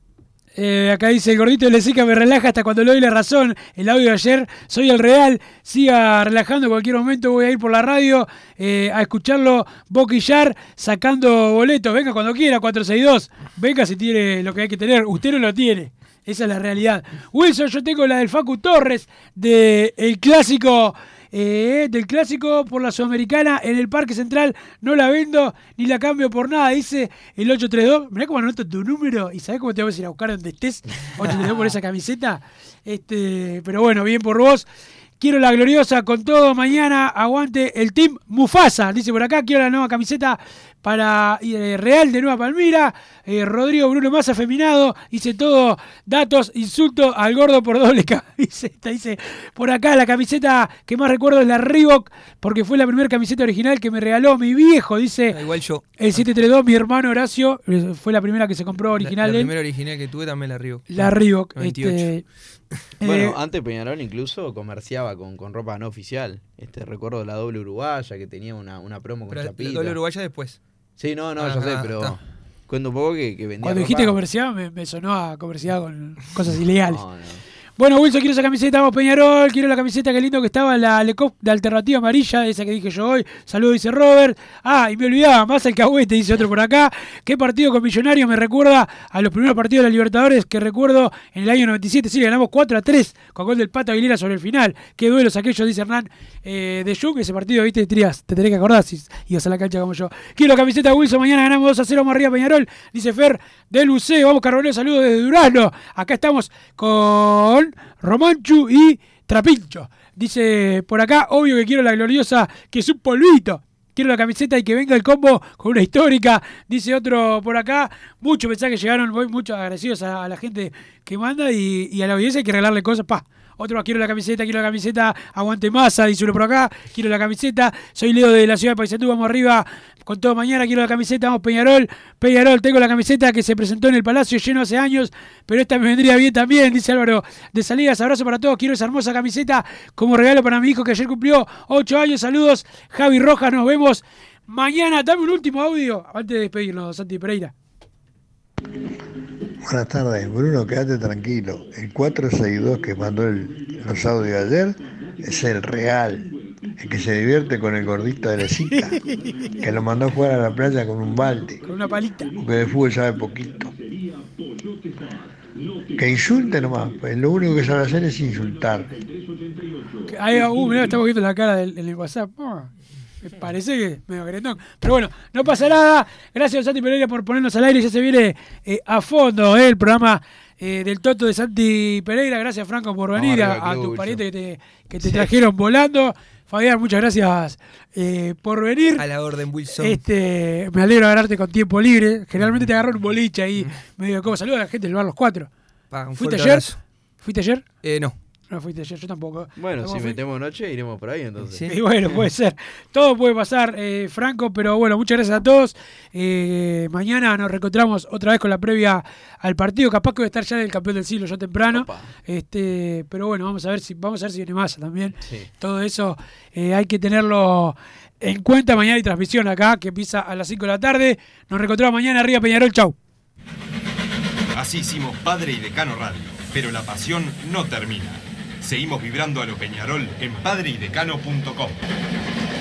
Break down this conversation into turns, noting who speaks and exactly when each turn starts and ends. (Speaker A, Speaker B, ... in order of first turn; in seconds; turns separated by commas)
Speaker A: 0.6-34.7, Speaker A: 35.2-55.4, Speaker B: 55.3-56.2, Speaker A: 56.0-59.5, Speaker B: 59.0-62.1, Speaker A: 60.9-62.2, Speaker A: 63.0-63.3, Speaker C: 63.0-70.0, Speaker B: 69.3-70.6, Speaker C: 71.0-74.2, Speaker B: 71.4-72.2, Speaker A: 73.6-77.0, Speaker C: 76.8-77.4, Speaker A: 77.8-147.5, Speaker D: 149.7-156.3, Speaker D: 156.8-159.0, Speaker A: 158.7-159.3, Speaker D: 159.6-161.6, Speaker A: 161.6-162.3, Speaker D: 162.4-163.7, Speaker D: 165.9-168.9, Speaker A: 170.1-172.7, Speaker A: 173.2-189.0, Speaker C: 183.1-184.2, Speaker B: 189.0-190.0, Speaker A: 189.8-195.5, Speaker B: 195.9-196.8, Speaker A: 196.2-196.7, Speaker A: 197.2-197.6, Speaker B: 197.8-198.2, Speaker A: 198.5-200.2, Speaker C: 199.6-201.6, Speaker B: 201.4-201.7, Speaker A: 201.7-222.9, Speaker C: 211.7-212.1, Speaker C: 215.2-215.5, Speaker E: 224.5-231.8